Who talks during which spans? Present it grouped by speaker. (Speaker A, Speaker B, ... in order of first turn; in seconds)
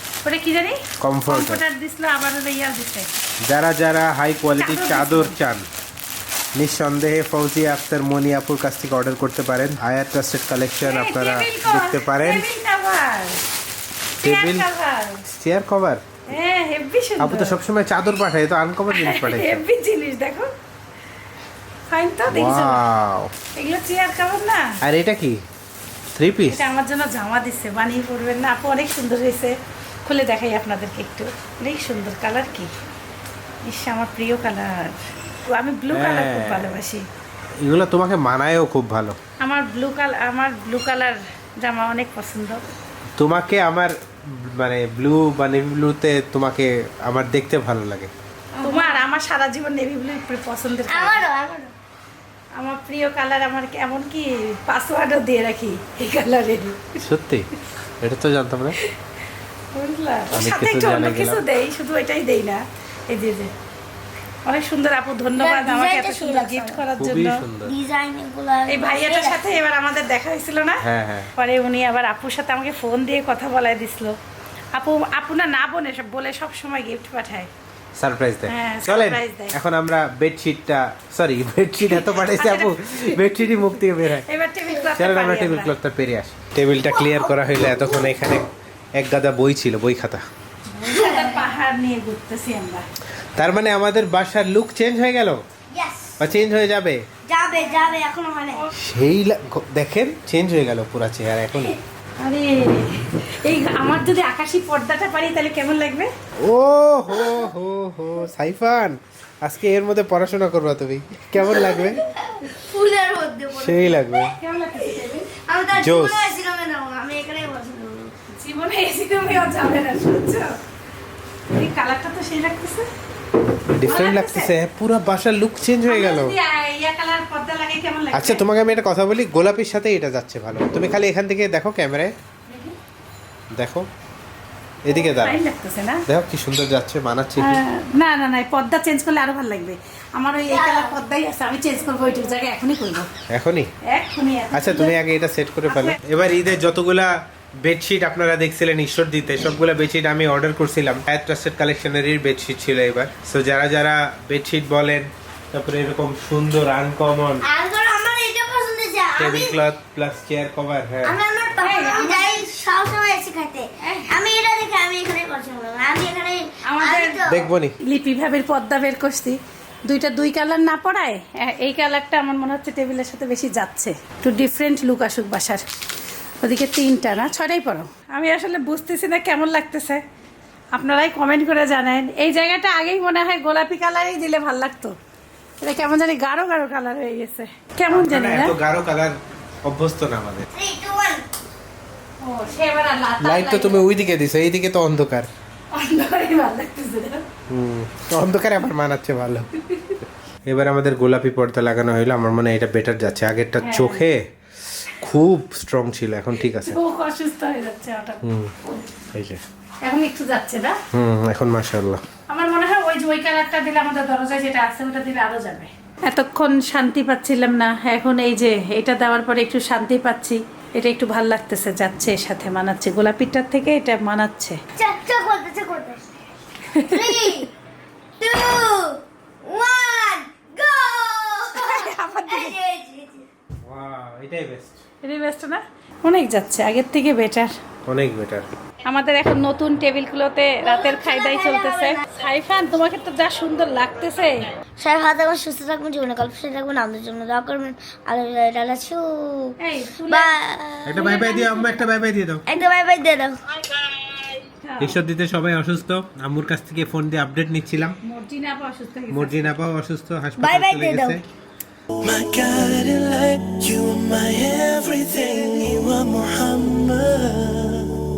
Speaker A: 0.2-3.1, 4.6-5.3, 10.8-13.4, 14.2-15.2, 16.3-17.6, 18.9-20.5, 21.9-22.8, 23.5-24.8, 26.5-32.7, 33.6-37.1, 39.4-42.6, 48.6-51.2, 52.5-57.0, 59.7-63.5, 64.5-67.4, 68.7-70.8, 71.3-74.2, 74.7-77.5, 78.5-79.5, 81.9-85.7, 90.7-92.9, 102.2-106.1, 114.3-115.3, 118.3-120.6, 121.5-122.9, 123.9-124.5, 125.9-128.4, 132.5-132.8, 134.9-136.0, 137.4-143.1, 143.8-144.9, 145.7-146.0, 161.6-162.5, 163.8-164.1, 166.6-167.2, 167.8-175.6, 176.4-180.0, 180.7-185.0, 185.6-188.6, 192.2-193.8, 195.7-197.2, 203.6-204.0, 206.4-208.8, 209.8-210.8, 212.3-224.6, 226.7-227.3, 231.5-232.5, 235.0-237.6, 238.8-244.5, 249.6-250.3, 250.9-251.8, 254.6-255.0, 258.0-259.5
Speaker B: 1.0-1.6, 3.4-5.7, 6.5-12.5, 14.2-14.7, 15.3-16.0, 17.2-19.6, 22.3-23.3, 24.8-25.4, 26.1-26.6, 35.9-36.7, 37.6-39.2, 43.2-48.1, 57.0-57.5, 58.0-58.8, 60.3-61.4, 67.0-67.8, 70.8-71.3, 78.0-84.2, 85.0-90.2, 93.3-95.4, 96.2-97.0, 98.7-101.8, 106.4-112.0, 113.5-114.3, 115.7-116.3, 123.7-126.4, 128.1-132.1, 133.5-133.9, 134.8-135.4, 136.1-137.6, 143.3-143.7, 144.5-157.4, 159.2-161.2, 167.2-167.8, 187.9-190.5, 193.2-195.3, 197.5-199.5, 200.5-206.8, 208.2-208.5, 209.1-209.4, 210.9-212.0, 233.6-234.8, 237.8-238.4, 250.8-252.4, 254.8-258.0, 259.1-261.2
Speaker C: 48.5-49.0, 50.9-51.7, 65.4-66.8, 67.6-69.6, 86.9-88.0, 90.8-91.5, 95.7-96.2, 97.3-98.6, 107.1-107.5, 111.4-114.3, 115.3-118.1, 140.5-140.9, 157.4-159.6, 161.0-167.5, 190.5-191.2, 224.8-226.2, 226.8-227.5, 228.2-233.3, 240.6-242.1, 244.8-249.6, 250.1-251.2, 252.5-253.4, 260.4-261.2
Speaker D: 262.0-268.0